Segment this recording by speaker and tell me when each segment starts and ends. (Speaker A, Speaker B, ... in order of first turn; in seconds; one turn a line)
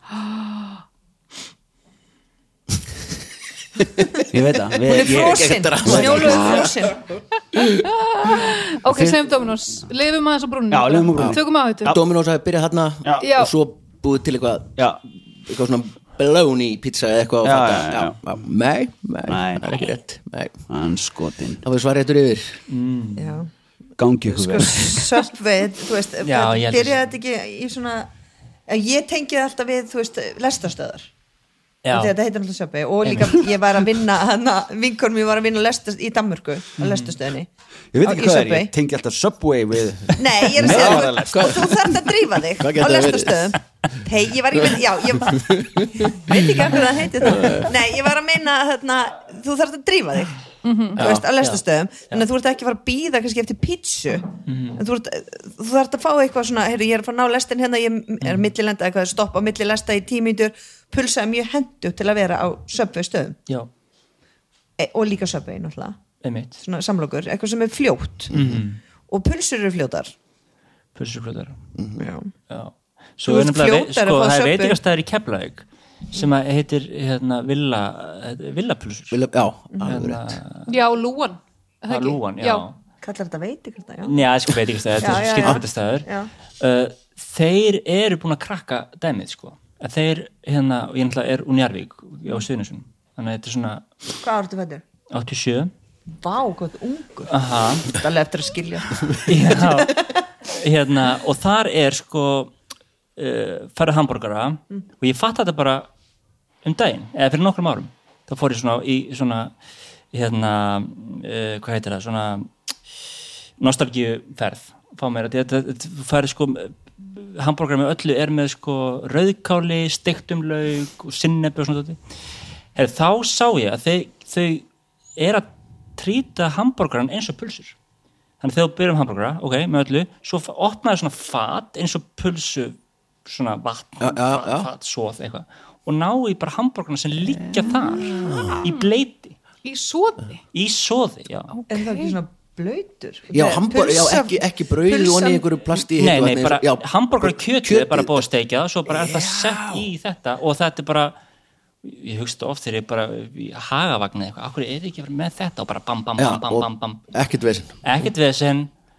Speaker A: 0.1-0.8
Speaker B: 4.3-6.7
Speaker C: 4.8-7.0
Speaker D: 4.9-7.0
Speaker A: 7.7-12.0
Speaker D: 8.9-9.2
Speaker B: 10.7-11.4
Speaker D: 11.1-14.8
Speaker A: 13.2-13.5
Speaker D: 15.5-20.6
Speaker B: 17.4-18.2
Speaker B: 19.3-19.8
Speaker B: 20.7-21.6
Speaker D: 21.6-22.6
Speaker E: 22.7-23.4
Speaker C: 23.2-23.5
Speaker B: 24.0-25.1
Speaker C: 24.3-28.1
Speaker E: 26.2-27.0
Speaker C: 28.7-31.1
Speaker E: 31.9-32.1
Speaker C: 31.9-37.5
Speaker E: 36.8-37.1
Speaker B: 37.9-41.9
Speaker C: 38.0-38.7
Speaker C: 40.2-50.4
Speaker D: 40.6-41.8
Speaker D: 42.6-43.5
Speaker D: 45.5-45.9
Speaker D: 47.3-47.7
Speaker A: 50.6-51.0
Speaker C: 51.0-63.4
Speaker E: 51.0-52.2
Speaker E: 54.5-54.8
Speaker E: 58.2-58.5
Speaker C: 64.8-66.0
Speaker E: 66.2-66.6
Speaker C: 66.6-68.3
Speaker D: 68.3-68.6
Speaker E: 68.3-68.8
Speaker C: 69.1-70.1
Speaker E: 71.0-71.5
Speaker D: 71.8-72.1
Speaker C: 72.0-72.3
Speaker E: 72.5-79.2
Speaker C: 73.3-74.8
Speaker D: 79.1-80.4
Speaker E: 79.9-80.7
Speaker A: 80.7-82.7
Speaker E: 81.9-82.7
Speaker C: 83.0-84.2
Speaker E: 84.0-86.1
Speaker C: 85.0-86.3
Speaker E: 86.6-93.9
Speaker C: 94.2-94.8
Speaker E: 95.1-95.7
Speaker C: 96.1-100.0
Speaker E: 97.3-97.9
Speaker E: 99.3-102.5
Speaker E: 103.2-105.9
Speaker E: 106.6-109.5
Speaker E: 110.1-112.5
Speaker E: 113.6-122.0
Speaker E: 122.8-124.7
Speaker E: 125.2-127.7
Speaker E: 128.4-139.4
Speaker D: 134.0-134.7
Speaker D: 138.1-138.6
Speaker A: 138.6-138.9
Speaker A: 139.6-140.4
Speaker E: 140.5-141.5
Speaker A: 141.5-142.2
Speaker C: 141.7-145.4
Speaker D: 143.3-148.2
Speaker E: 146.0-151.1
Speaker D: 148.9-149.8
Speaker E: 151.8-157.1
Speaker D: 156.2-157.8
Speaker E: 157.8-158.7